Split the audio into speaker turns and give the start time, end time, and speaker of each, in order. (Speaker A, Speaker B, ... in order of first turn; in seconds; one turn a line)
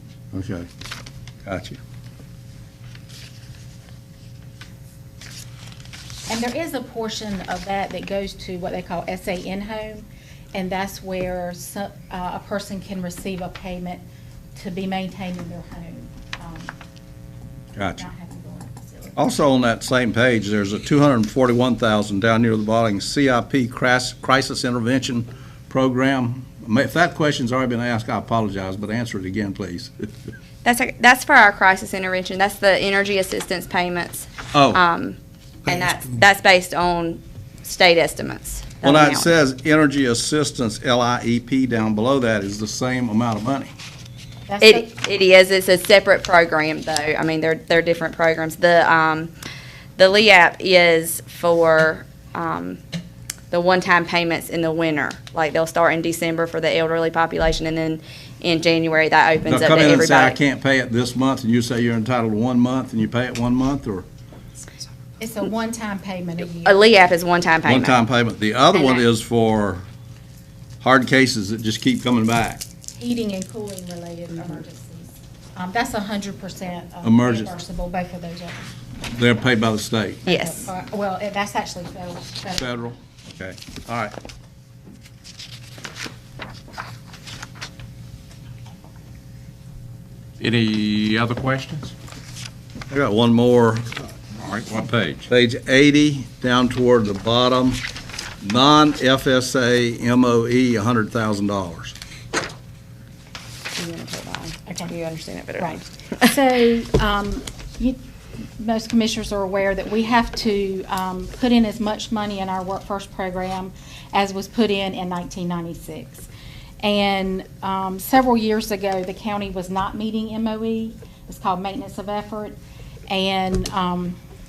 Speaker A: 0.3-0.7
Speaker A: 1.5-1.8
Speaker B: 6.3-14.0
Speaker B: 14.5-16.7
Speaker A: 17.8-18.0
Speaker B: 17.9-19.2
Speaker A: 19.1-30.1
Speaker C: 30.6-35.2
Speaker A: 34.5-34.8
Speaker C: 35.7-39.3
Speaker A: 38.8-43.7
Speaker B: 44.5-44.9
Speaker C: 44.6-49.3
Speaker C: 50.0-52.8
Speaker C: 53.5-60.4
Speaker A: 59.5-64.0
Speaker B: 65.2-66.9
Speaker C: 66.6-68.0
Speaker A: 67.6-69.8
Speaker A: 70.8-72.6
Speaker B: 72.9-78.6
Speaker A: 77.0-77.6
Speaker A: 79.1-80.2
Speaker C: 80.2-80.7
Speaker B: 80.2-82.7
Speaker A: 82.5-84.1
Speaker D: 90.4-91.9
Speaker A: 92.9-93.8
Speaker D: 94.3-95.3
Speaker A: 95.3-97.8
Speaker A: 98.4-101.9
Speaker C: 103.7-106.3
Speaker B: 104.7-104.9
Speaker B: 105.6-108.0
Speaker B: 108.6-116.3
Speaker B: 116.8-122.5
Speaker B: 123.1-124.2